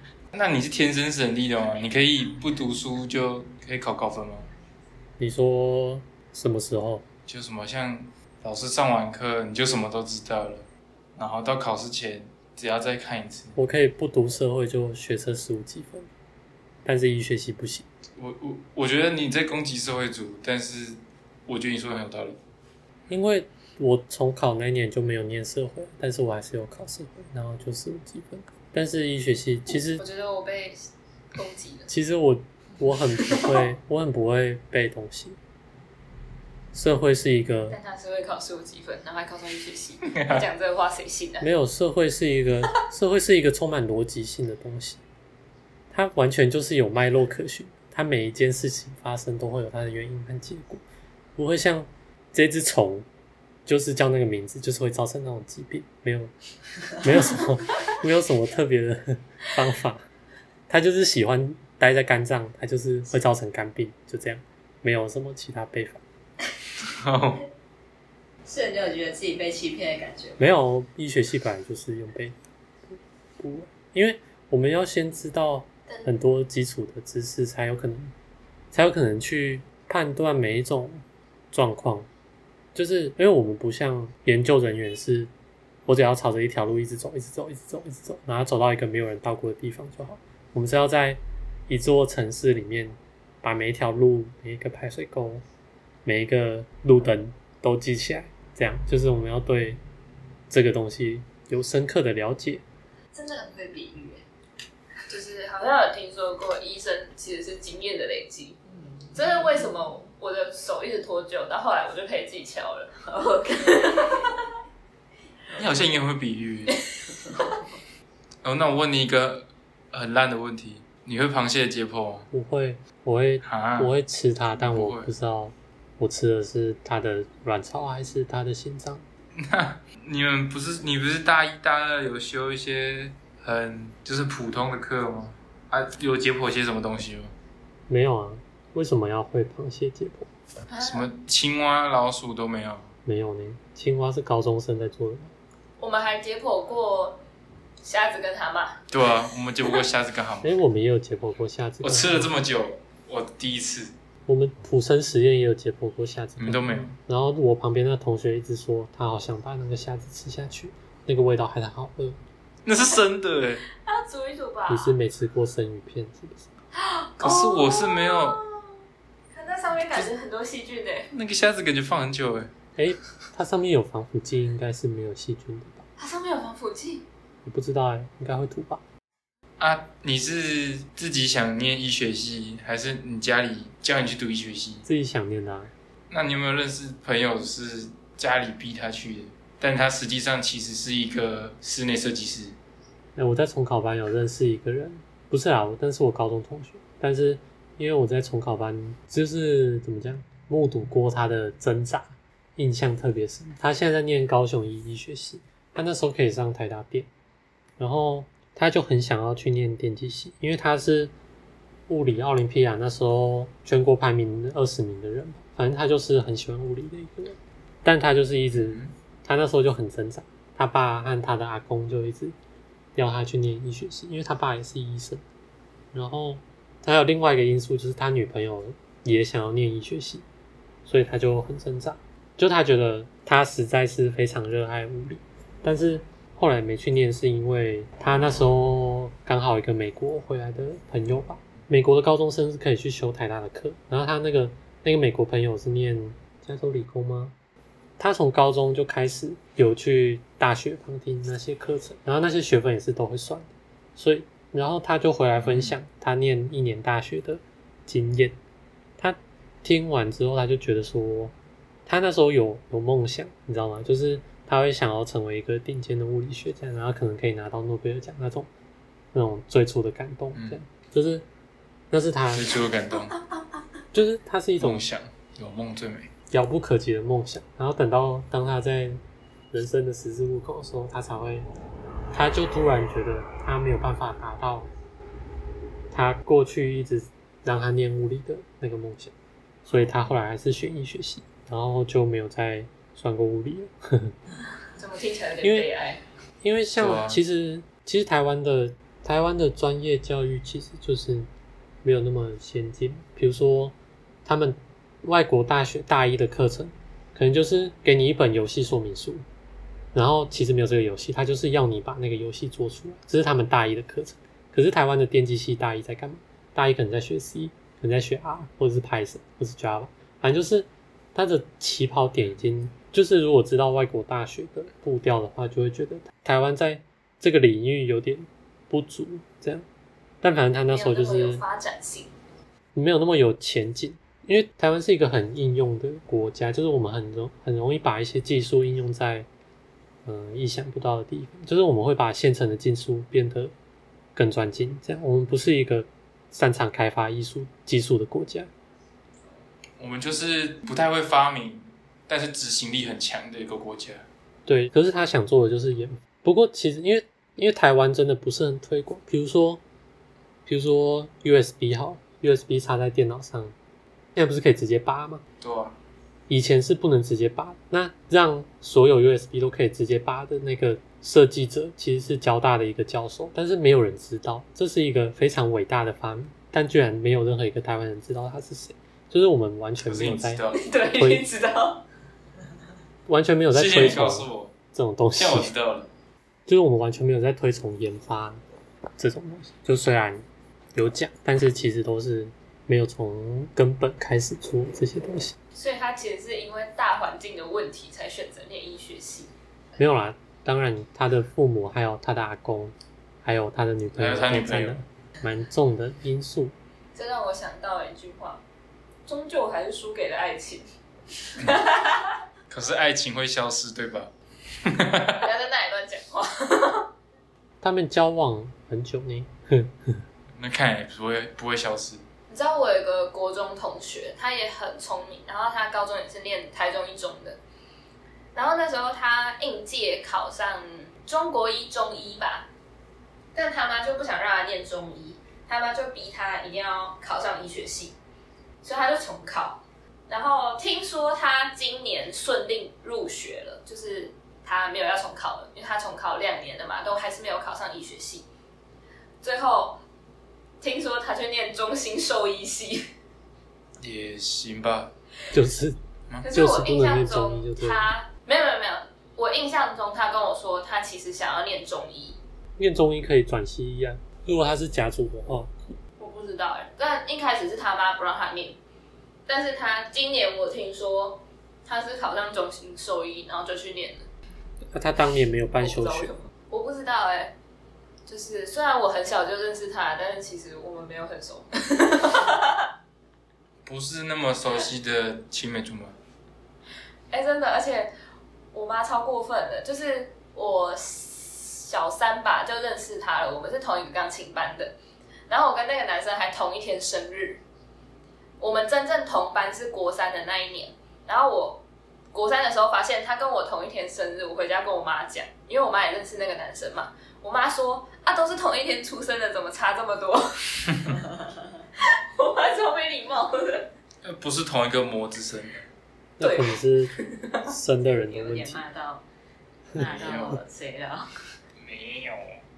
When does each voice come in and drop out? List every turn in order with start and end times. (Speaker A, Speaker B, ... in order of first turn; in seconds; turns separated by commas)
Speaker A: 0.3-4.5, Speaker B: 5.2-7.0, Speaker A: 7.3-13.6, Speaker B: 13.6-16.1, Speaker B: 16.9-17.9, Speaker A: 18.2-22.4, Speaker B: 23.1-30.0, Speaker C: 30.0-31.9, Speaker B: 31.9-35.4, Speaker B: 36.7-37.8, Speaker C: 37.7-41.5, Speaker A: 40.1-40.5, Speaker B: 41.4-45.0, Speaker B: 45.9-50.8, Speaker B: 51.4-53.1, Speaker B: 53.7-56.3, Speaker B: 57.0-60.0, Speaker B: 60.7-66.0, Speaker A: 66.9-67.4, Speaker D: 68.5-70.4, Speaker B: 70.4-72.4, Speaker B: 72.9-78.1, Speaker B: 78.7-82.1, Speaker B: 82.7-85.3, Speaker B: 85.9-95.4, Speaker B: 96.0-99.8, Speaker B: 100.5-102.6, Speaker D: 103.1-104.2, Speaker C: 105.1-108.6, Speaker D: 108.7-109.7, Speaker C: 109.2-112.9, Speaker D: 113.0-114.5, Speaker A: 115.5-116.8, Speaker A: 118.4-122.3, Speaker B: 122.3-129.1, Speaker A: 123.4-123.9, Speaker A: 124.5-125.1, Speaker A: 129.4-137.3, Speaker B: 137.9-140.3, Speaker C: 140.7-141.1, Speaker A: 140.8-142.9, Speaker B: 143.1-145.3, Speaker C: 145.8-147.2, Speaker C: 147.8-148.8, Speaker A: 148.9-150.6, Speaker B: 150.4-152.3, Speaker A: 151.8-153.9, Speaker B: 154.3-162.2, Speaker A: 156.4-157.0, Speaker A: 162.7-163.6, Speaker C: 163.8-164.9, Speaker B: 164.7-166.5, Speaker C: 166.8-168.8, Speaker A: 167.2-168.4, Speaker C: 169.3-171.1, Speaker A: 171.1-172.5, Speaker B: 172.8-175.8, Speaker C: 176.0-177.1, Speaker B: 177.4-178.8, Speaker A: 179.6-184.9, Speaker B: 184.8-185.7, Speaker A: 186.1-192.6, Speaker B: 193.2-207.1, Speaker B: 207.8-211.1, Speaker B: 211.9-222.4, Speaker A: 218.5-218.9, Speaker B: 223.0-225.2, Speaker B: 225.9-230.2, Speaker B: 230.8-247.3, Speaker B: 248.0-258.4, Speaker A: 255.4-255.8, Speaker B: 259.0-261.3, Speaker B: 261.9-268.5, Speaker B: 269.1-271.3, Speaker B: 271.9-272.6, Speaker A: 272.3-273.2, Speaker B: 273.9-274.9, Speaker A: 274.6-276.1, Speaker B: 276.3-279.0, Speaker B: 279.5-281.5, Speaker B: 282.1-284.7, Speaker B: 285.9-289.1, Speaker B: 289.7-294.1, Speaker C: 294.8-296.0, Speaker B: 295.4-295.7, Speaker B: 296.4-301.3, Speaker A: 296.8-297.2, Speaker B: 301.8-309.2, Speaker B: 309.9-329.7, Speaker B: 330.2-331.4, Speaker C: 330.7-332.1, Speaker B: 332.8-339.3, Speaker B: 340.1-343.5, Speaker B: 344.1-348.5, Speaker A: 349.8-354.0, Speaker B: 354.5-359.6, Speaker B: 360.5-363.5, Speaker B: 364.1-365.2, Speaker A: 365.4-365.8, Speaker B: 366.3-380.4, Speaker A: 379.8-380.6, Speaker C: 380.5-381.9, Speaker B: 380.9-381.3, Speaker B: 383.1-385.5, Speaker A: 383.5-384.5, Speaker A: 385.2-385.9, Speaker B: 386.5-388.4, Speaker B: 389.0-395.4, Speaker C: 395.5-399.3, Speaker B: 399.8-406.5, Speaker A: 403.9-404.8, Speaker C: 406.9-408.4, Speaker C: 409.1-410.7, Speaker C: 411.3-412.2, Speaker A: 412.5-414.1, Speaker A: 414.6-415.2, Speaker C: 415.2-416.9, Speaker B: 417.6-420.0, Speaker A: 420.4-422.0, Speaker C: 422.3-427.4, Speaker C: 428.3-432.5, Speaker C: 433.3-438.0, Speaker C: 438.6-448.3, Speaker C: 449.2-449.8, Speaker C: 450.6-452.9, Speaker A: 453.8-454.9, Speaker B: 455.3-457.9, Speaker C: 456.2-462.2, Speaker B: 462.6-465.5, Speaker C: 466.0-468.6, Speaker C: 469.3-474.1, Speaker B: 474.7-476.1, Speaker C: 475.6-477.3, Speaker C: 478.1-482.7, Speaker A: 483.7-486.0, Speaker C: 487.1-487.9, Speaker C: 488.5-494.8, Speaker C: 495.3-497.4, Speaker C: 498.4-511.0, Speaker D: 510.9-511.6, Speaker C: 511.8-513.7, Speaker A: 514.0-515.6, Speaker B: 516.2-517.0, Speaker C: 516.2-517.5, Speaker B: 517.5-518.6, Speaker D: 518.0-519.0, Speaker D: 519.8-521.0, Speaker A: 519.8-520.4, Speaker A: 521.6-522.4